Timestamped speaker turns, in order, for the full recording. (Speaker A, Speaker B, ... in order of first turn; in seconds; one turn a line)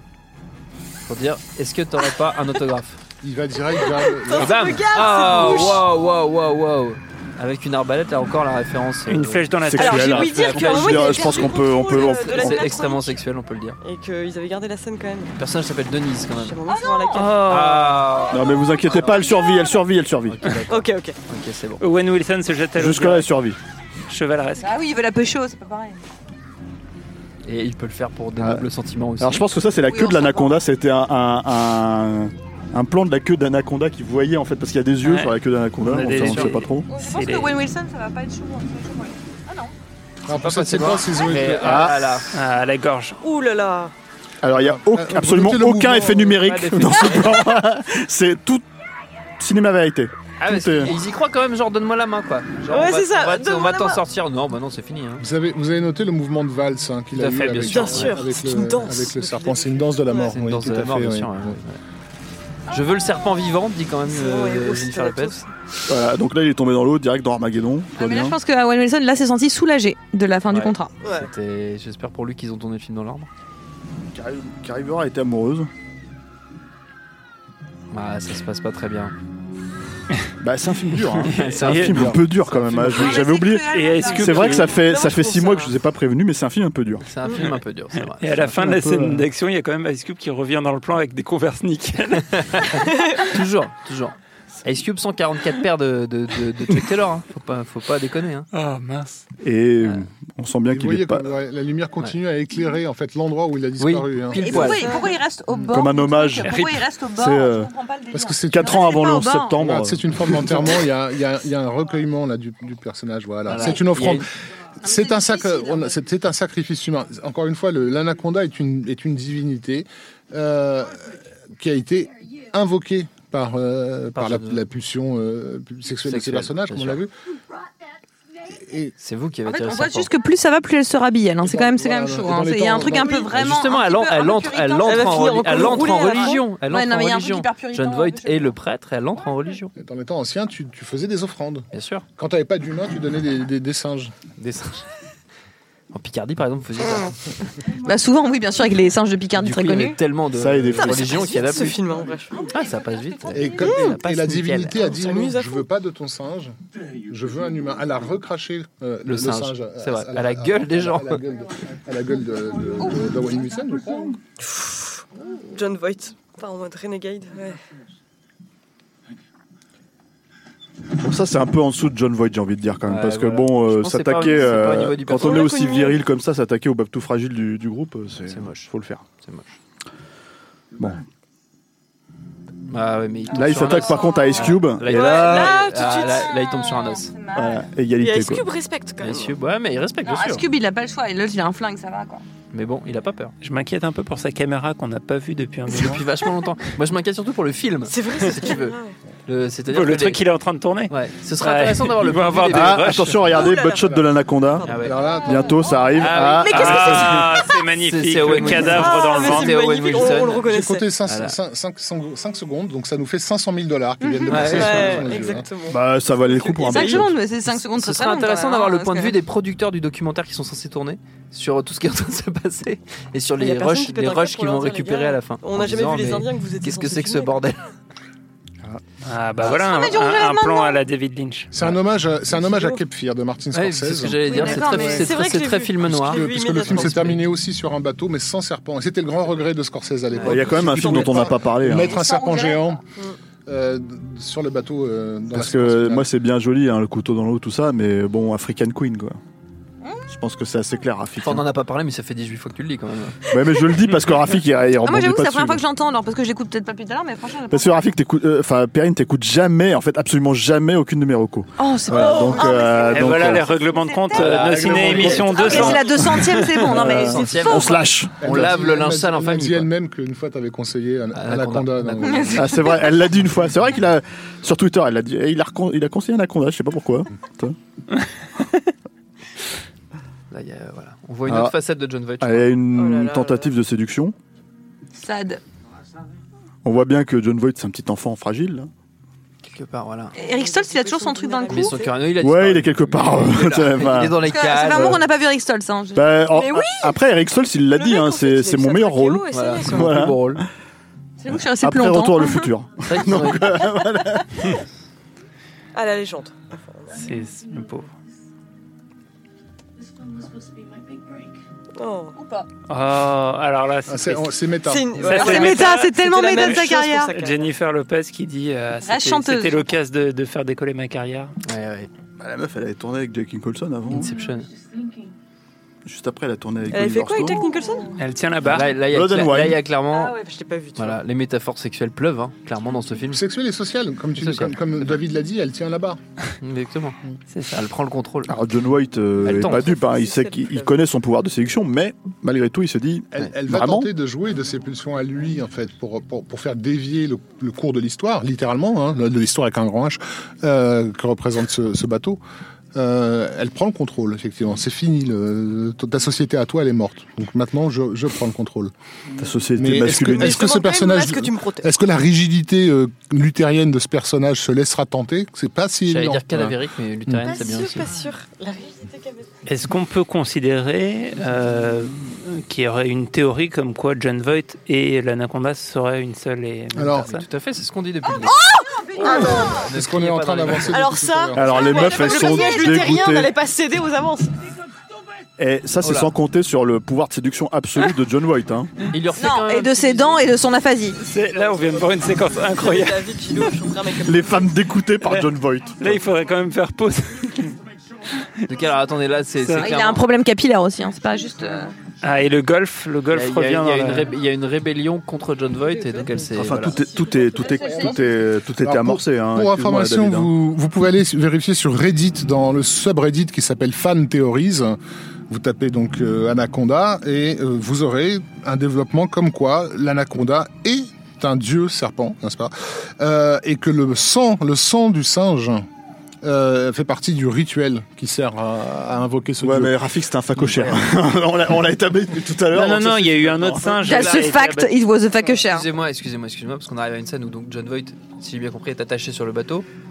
Speaker A: 1.1-3.0
Speaker B: 3.2-4.8
Speaker C: 3.9-5.9
Speaker A: 4.3-9.5
Speaker D: 5.0-5.6
Speaker E: 9.1-10.4
Speaker F: 9.7-12.7
Speaker C: 9.8-13.2
Speaker A: 10.4-13.8
Speaker C: 13.8-15.3
Speaker A: 15.4-16.6
Speaker C: 16.4-17.4
Speaker D: 16.7-19.8
Speaker E: 17.1-18.1
Speaker A: 17.4-19.0
Speaker F: 18.3-20.4
Speaker A: 20.3-21.8
Speaker C: 20.7-21.2
Speaker E: 21.8-23.3
Speaker F: 22.8-23.6
Speaker E: 24.1-24.8
Speaker D: 24.6-26.0
Speaker A: 27.4-29.4
Speaker F: 28.4-28.7
Speaker F: 29.2-36.9
Speaker D: 29.9-30.6
Speaker E: 35.0-37.5
Speaker A: 36.1-36.5
Speaker D: 36.9-39.7
Speaker B: 40.3-41.9
Speaker A: 40.3-42.3
Speaker F: 41.6-42.2
Speaker E: 42.3-43.2
Speaker C: 43.2-43.9
Speaker F: 44.4-48.7
Speaker B: 44.5-46.5
Speaker A: 46.5-47.1
Speaker F: 49.4-51.0
Speaker A: 50.4-55.2
Speaker C: 52.7-54.0
Speaker B: 55.2-61.6
Speaker A: 57.1-58.2
Speaker C: 57.6-60.4
Speaker A: 60.3-61.8
Speaker A: 62.7-65.4
Speaker C: 64.1-65.5
Speaker F: 65.9-68.4
Speaker D: 68.0-70.9
Speaker A: 70.5-73.3
Speaker C: 71.0-71.3
Speaker F: 74.1-75.7
Speaker A: 77.9-79.1
Speaker F: 80.4-87.0
Speaker A: 81.2-83.3
Speaker E: 81.3-82.2
Speaker D: 82.8-84.7
Speaker E: 83.7-84.7
Speaker C: 84.7-85.7
Speaker A: 87.0-88.6
Speaker E: 88.2-92.7
Speaker F: 88.5-89.3
Speaker A: 92.2-98.5
Speaker C: 92.9-93.2
Speaker E: 98.5-99.2
Speaker F: 99.4-101.3
Speaker B: 100.7-104.7
Speaker A: 103.8-104.8
Speaker D: 104.3-109.6
Speaker C: 104.8-105.2
Speaker F: 105.7-107.7
Speaker B: 108.1-114.2
Speaker F: 108.5-110.8
Speaker A: 113.5-114.3
Speaker B: 114.8-127.1
Speaker D: 114.8-116.0
Speaker A: 124.1-124.6
Speaker A: 126.0-127.0
Speaker B: 128.6-128.9
Speaker A: 129.0-130.1
Speaker D: 129.4-138.6
Speaker B: 131.4-133.4
Speaker A: 133.2-139.7
Speaker C: 134.8-136.4
Speaker B: 139.8-144.1
Speaker A: 141.7-142.1
Speaker A: 144.4-144.9
Speaker A: 145.9-147.2
Speaker D: 147.8-150.0
Speaker A: 149.4-151.8
Speaker F: 150.3-151.2
Speaker C: 150.9-152.4
Speaker D: 151.2-151.7
Speaker A: 152.5-154.9
Speaker D: 152.5-153.5
Speaker B: 153.3-156.6
Speaker C: 153.6-154.0
Speaker C: 154.8-155.7
Speaker B: 157.1-164.2
Speaker A: 159.1-161.2
Speaker C: 164.4-167.6
Speaker F: 171.0-179.0
Speaker A: 172.9-175.5
Speaker C: 175.1-176.0
Speaker A: 178.3-179.6
Speaker F: 180.8-181.0
Speaker A: 182.7-187.1
Speaker F: 183.3-185.6
Speaker D: 183.6-184.5
Speaker C: 184.9-186.3
Speaker D: 185.8-187.6
Speaker F: 187.3-188.4
Speaker C: 188.0-189.3
Speaker A: 189.0-190.5
Speaker D: 190.0-192.2
Speaker A: 192.5-193.3
Speaker E: 193.4-196.1
Speaker A: 195.7-200.2
Speaker C: 197.9-199.0
Speaker E: 199.7-203.3
Speaker A: 200.9-203.0
Speaker F: 202.5-204.7
Speaker C: 203.3-204.0
Speaker C: 204.6-205.2
Speaker A: 204.7-205.0
Speaker B: 204.8-205.6
Speaker F: 205.2-207.1
Speaker A: 206.0-210.5
Speaker D: 206.4-207.3
Speaker E: 206.4-209.6
Speaker C: 208.7-210.9
Speaker B: 210.4-215.5
Speaker A: 211.1-211.4
Speaker A: 214.3-215.1
Speaker C: 214.4-217.1
Speaker F: 215.7-217.2
Speaker D: 216.7-219.2
Speaker A: 217.6-227.6
Speaker C: 223.4-227.4
Speaker E: 229.0-231.5
Speaker D: 229.4-230.8
Speaker B: 231.5-234.4
Speaker C: 232.3-232.8
Speaker A: 233.5-237.2
Speaker D: 234.2-235.1
Speaker C: 234.4-237.1
Speaker B: 235.8-242.8
Speaker F: 240.2-242.0
Speaker C: 240.4-241.4
Speaker D: 241.8-242.8
Speaker B: 243.5-246.1
Speaker F: 245.3-249.2
Speaker F: 250.1-251.5
Speaker A: 251.2-253.2
Speaker F: 253.3-255.6
Speaker D: 254.8-257.8
Speaker F: 257.5-263.5
Speaker D: 261.6-267.8
Speaker E: 262.8-266.1
Speaker A: 264.1-265.8
Speaker A: 266.6-269.7
Speaker F: 266.6-268.5
Speaker B: 268.2-272.5
Speaker A: 271.1-272.4
Speaker D: 272.0-272.8
Speaker F: 272.3-277.6
Speaker A: 280.3-282.5
Speaker F: 281.3-281.6
Speaker F: 282.2-284.2
Speaker C: 282.7-283.5
Speaker D: 285.0-285.4
Speaker F: 286.6-288.7
Speaker A: 289.4-290.2
Speaker D: 290.1-291.8
Speaker C: 290.2-292.0
Speaker A: 291.5-295.1
Speaker F: 292.2-294.3
Speaker D: 294.2-296.8
Speaker F: 295.9-300.5
Speaker C: 297.7-300.0
Speaker A: 299.3-300.4
Speaker D: 301.2-302.5
Speaker F: 301.3-304.4
Speaker A: 302.9-303.5
Speaker C: 305.7-306.9
Speaker E: 306.9-307.9
Speaker C: 311.8-312.2
Speaker D: 312.2-312.5
Speaker E: 312.7-314.4
Speaker B: 313.9-315.3
Speaker C: 314.6-317.5
Speaker E: 315.0-321.4
Speaker D: 315.1-317.2
Speaker D: 318.8-319.7
Speaker A: 321.4-321.9
Speaker F: 322.2-324.1
Speaker A: 323.9-324.5
Speaker F: 325.9-327.4
Speaker C: 326.7-327.9
Speaker E: 328.0-328.8
Speaker A: 328.5-330.2
Speaker F: 328.9-329.6
Speaker C: 329.9-331.0
Speaker A: 330.8-333.2
Speaker B: 333.1-336.0
Speaker A: 334.2-334.6
Speaker A: 336.4-337.0
Speaker E: 337.3-337.6
Speaker A: 337.5-338.3
Speaker F: 338.3-343.9
Speaker A: 339.2-339.7
Speaker C: 339.4-340.8
Speaker B: 343.1-352.2
Speaker B: 352.8-358.7
Speaker F: 359.2-360.5
Speaker B: 359.6-366.6
Speaker C: 360.0-361.7
Speaker A: 365.9-367.9
Speaker C: 367.2-369.4
Speaker E: 369.4-377.2
Speaker B: 376.8-377.1
Speaker A: 377.0-378.4
Speaker C: 378.2-379.6
Speaker B: 379.0-381.6
Speaker A: 379.0-380.8
Speaker C: 380.7-384.3
Speaker F: 381.4-383.3
Speaker D: 381.5-382.8
Speaker F: 385.4-388.7
Speaker A: 388.9-390.2
Speaker D: 389.1-391.0
Speaker E: 391.0-393.1
Speaker C: 392.4-394.5
Speaker F: 394.0-396.0
Speaker E: 395.8-397.5
Speaker A: 398.5-400.0
Speaker E: 399.4-399.7
Speaker D: 399.6-401.7
Speaker E: 402.0-404.1
Speaker A: 403.1-406.8
Speaker C: 405.8-407.9
Speaker F: 406.4-410.3
Speaker D: 407.4-407.9
Speaker B: 408.6-414.8
Speaker B: 415.3-425.7
Speaker B: 426.2-429.8
Speaker F: 429.4-433.8
Speaker A: 430.4-430.8
Speaker E: 432.5-434.7
Speaker D: 433.8-435.7
Speaker A: 433.9-434.4
Speaker A: 435.4-439.7